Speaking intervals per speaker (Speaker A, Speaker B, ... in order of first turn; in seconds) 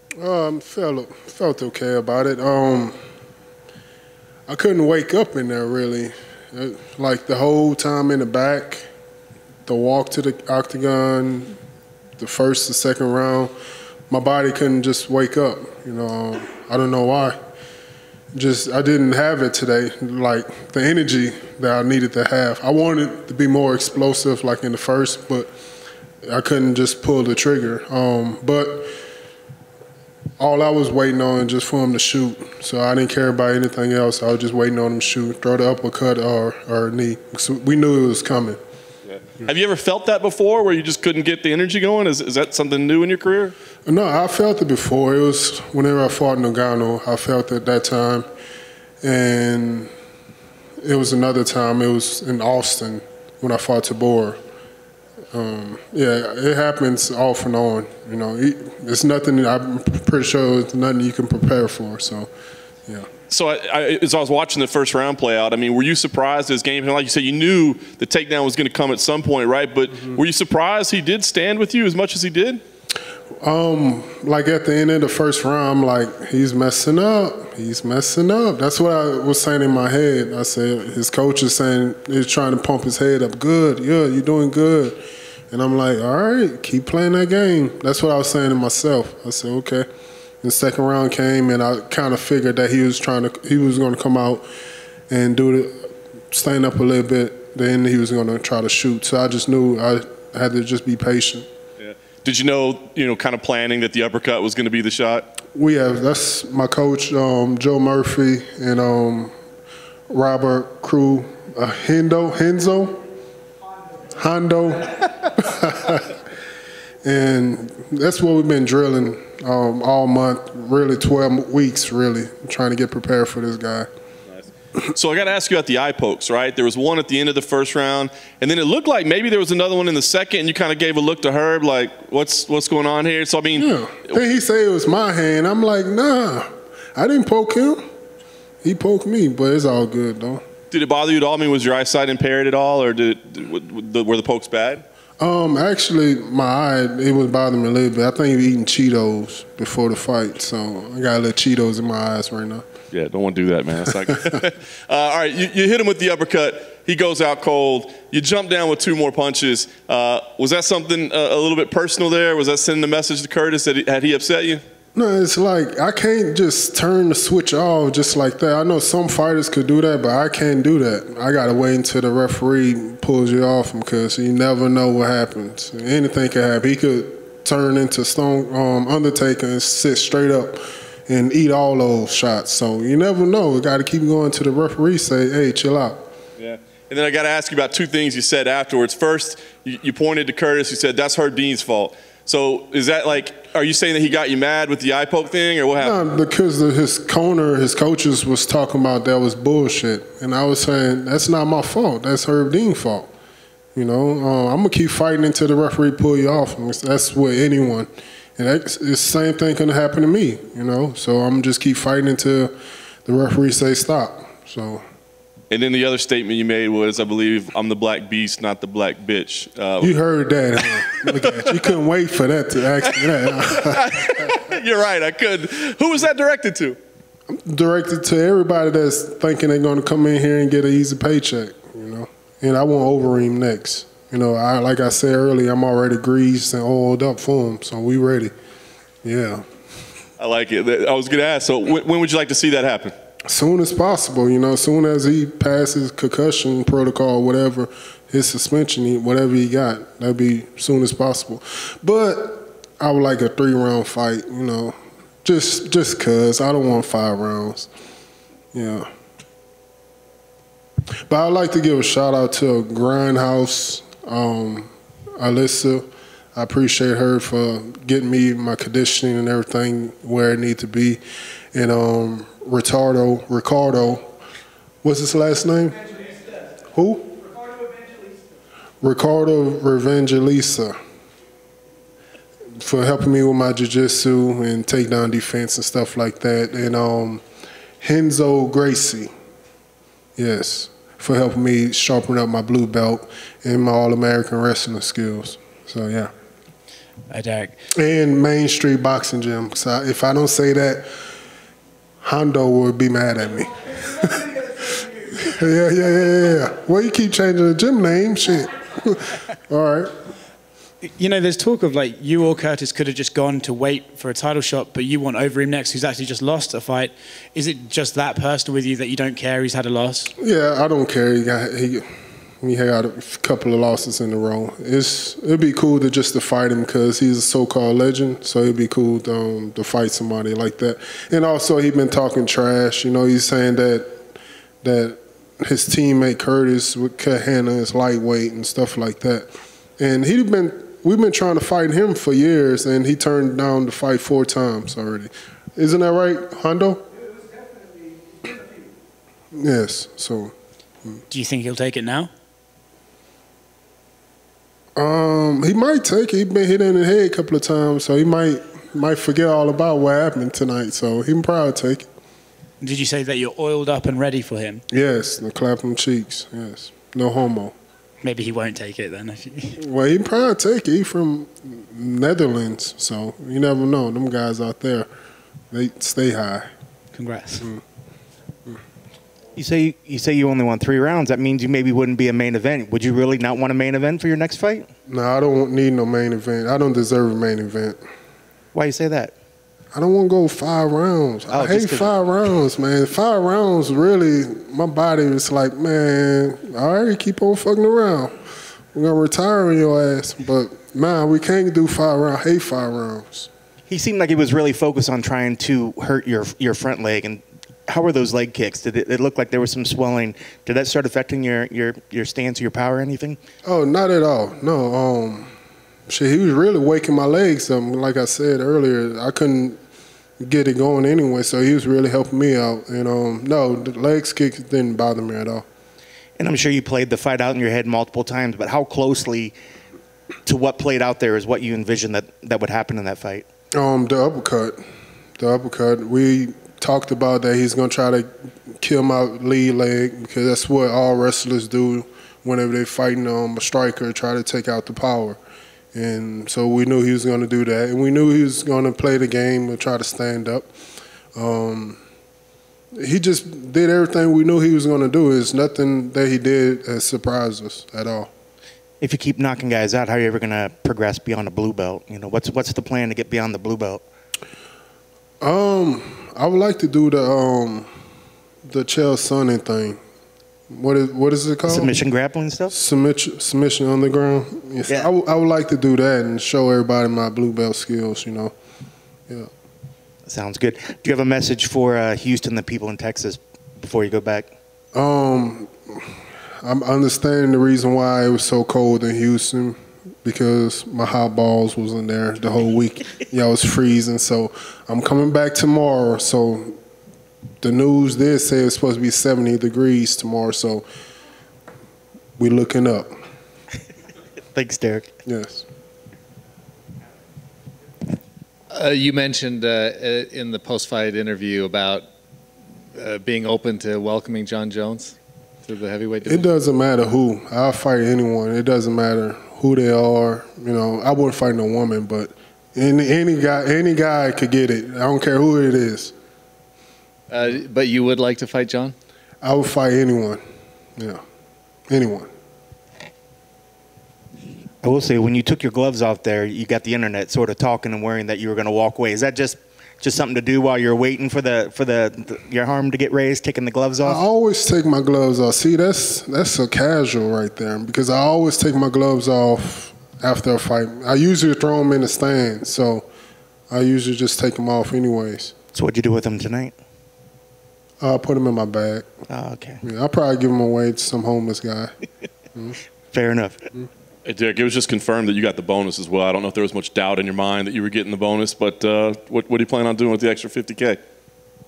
Speaker A: 0.2-2.9, 4.5-8.8, 9.7-11.6, 12.2-13.5, 14.1-17.3, 18.3-25.5, 26.2-28.9, 30.4-38.6, 43.9-48.3, 49.0-49.9, 50.8-54.4, 55.3-62.3, 73.4-85.0, 85.5-89.8, 90.4-94.5, 95.1-101.5, 105.5-109.3, 110.1-113.0, 114.1-116.1, 117.0-123.9, 133.6-137.8, 138.6-140.4, 145.2-152.7, 164.9-186.1, 195.8-203.1, 203.7-212.5, 213.1-214.8, 219.8-223.8, 227.3-238.3, 239.0-239.4, 243.3-257.7, 258.5-258.9, 261.1-271.0, 271.5-274.0, 274.8-275.8, 276.7-277.2, 278.8-280.7, 282.6-287.2, 287.8-289.1, 290.2-296.1, 297.7-300.9, 302.0-309.9, 320.2-321.8, 322.4-333.9, 334.6-346.8, 349.3-350.3, 354.8-361.8, 364.7-367.5, 369.6-374.9, 375.5-376.5, 384.9-387.8, 389.7-398.1, 398.7-403.3, 413.4-415.3, 415.9-419.6, 420.2-425.4, 433.5-434.6, 435.2-438.1, 438.6-445.2, 445.7-450.5, 451.1-451.8, 452.8-458.1, 465.2-467.7, 468.4-469.8, 470.5-471.7, 472.5-478.3, 484.7-485.8, 486.4-496.6, 497.4-500.6, 502.2-502.9, 505.1-505.4, 516.1-525.9, 529.2-530.2, 531.7-532.1, 543.8-552.9, 553.5-555.3, 557.8-558.9, 559.6-561.7
Speaker B: 39.3-43.5, 63.3-72.6, 101.8-105.3, 124.3-134.2, 140.7-144.8, 152.9-164.6, 186.4-196.0, 215.5-220.0, 220.9-221.5, 222.9-226.8, 240.2-242.9, 564.0-570.8
Speaker C: 297.1-297.6, 311.0-320.1, 351.1-352.1, 362.6-364.6, 368.0-369.6, 376.9-377.4
Speaker D: 379.3-384.7, 388.5-389.1, 391.3-391.9, 403.7-413.2, 426.2-429.4, 430.2-433.3, 458.8-463.8, 471.5-472.6, 480.1-484.3, 504.3-504.9, 534.6-544.0, 555.5-556.5, 559.1-559.6, 562.9-563.4
Speaker E: 508.5-511.9, 512.7-516.3, 527.1-528.7